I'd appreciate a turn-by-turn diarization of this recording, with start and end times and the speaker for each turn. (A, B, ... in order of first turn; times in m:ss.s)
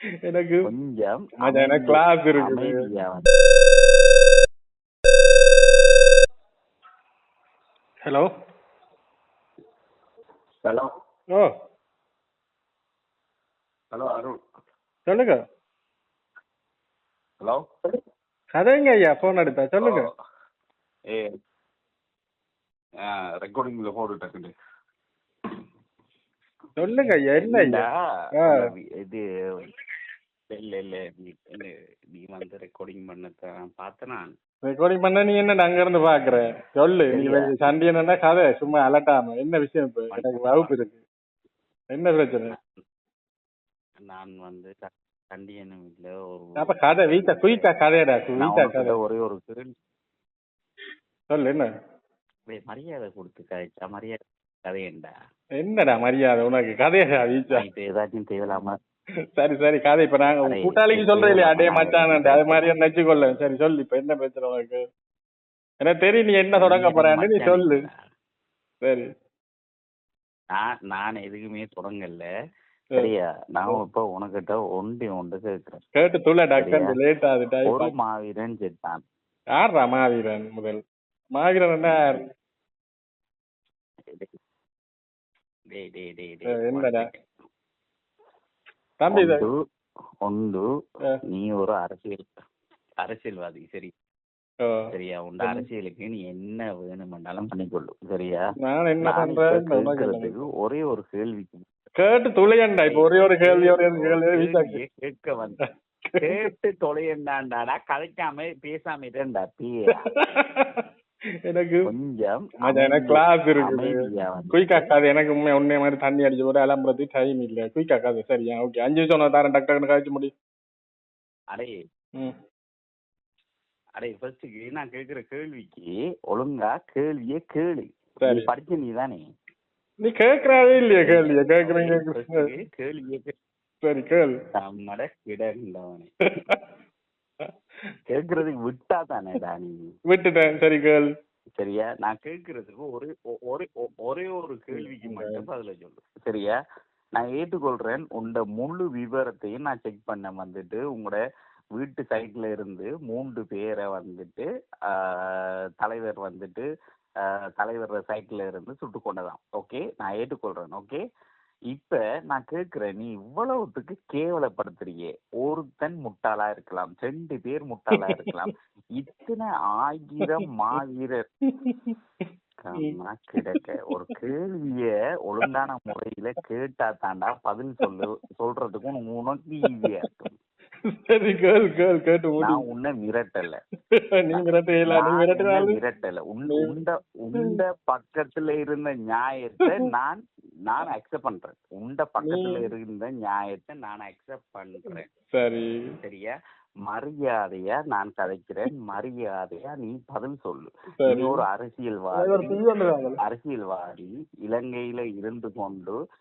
0:00.3-0:00.7 A
0:00.6-0:03.3 B
0:01.4-0:02.8 A
0:10.6-0:10.9 B
0:13.9-0:14.4 B
0:15.1-0:15.4 A
0:18.6-0:20.1 A
0:19.8-0:20.1 B
0:23.0-0:24.5 B
0:26.8-0:27.8 A
0:27.0-0:27.9 B
0:28.4-0:28.7 A
0:28.4-0:29.7 B
0:30.5-0:34.3 B
0:34.6-0:41.0 A
0:37.1-0:37.5 B
0:40.1-0:40.7 B
0:41.9-0:42.5 A
0:44.1-0:47.7 B
0:46.6-0:49.0 A
0:48.4-0:49.7 B
0:51.3-0:51.7 A
0:52.5-0:55.1 B
0:55.6-0:57.6 A
0:57.5-0:58.7 B
0:59.4-1:04.8 A
1:00.4-1:02.7 B
1:05.8-1:07.8 A
1:06.6-1:08.0 B
1:08.8-1:09.1 A
1:10.5-1:12.3 B
1:13.0-1:15.8 B
1:16.0-1:17.9 A
1:16.6-1:17.0 B
1:17.7-1:19.0 B
1:19.6-1:20.8 A
1:21.4-1:22.2 A
1:25.7-1:27.3 B
1:26.5-1:27.1 A
1:29.0-1:29.5 A
1:29.1-1:29.5 B
1:30.2-1:30.6 B
1:31.3-1:32.3 B
1:33.0-1:33.9 B
1:34.9-1:38.5 B
1:38.6-1:40.4 A
1:39.0-1:41.6 B
1:42.0-1:44.8 A
1:42.8-1:45.6 B
1:46.1-1:46.5 A
1:46.2-1:50.1 B
1:50.1-1:50.9 A
1:51.5-1:51.9 A
1:51.9-1:54.9 B
1:52.7-1:54.0 A
1:54.5-2:00.3 A
2:04.0-2:09.2 B
2:08.2-2:08.5 A
2:10.0-2:12.4 A
2:11.1-2:13.3 B
2:13.8-2:14.3 A
2:14.5-2:16.1 B
2:18.1-2:19.8 B
2:20.1-2:21.1 A
2:21.6-2:26.6 B
2:24.8-2:25.4 A
2:27.2-2:31.2 B
2:31.8-2:36.6 B
2:37.2-2:41.0 B
2:41.7-2:51.2 B
2:51.6-2:52.0 A
2:52.7-3:00.3 B
2:52.8-2:53.6 A
3:01.0-3:02.6 A
3:02.4-3:03.6 B
3:04.2-3:05.8 A
3:04.3-3:15.1 B
3:06.5-3:06.7 A
3:12.2-3:12.7 A
3:15.3-3:15.8 A
3:16.0-3:16.3 B
3:16.9-3:22.6 B
3:21.0-3:21.4 A
3:22.2-3:23.2 A
3:23.2-3:26.0 B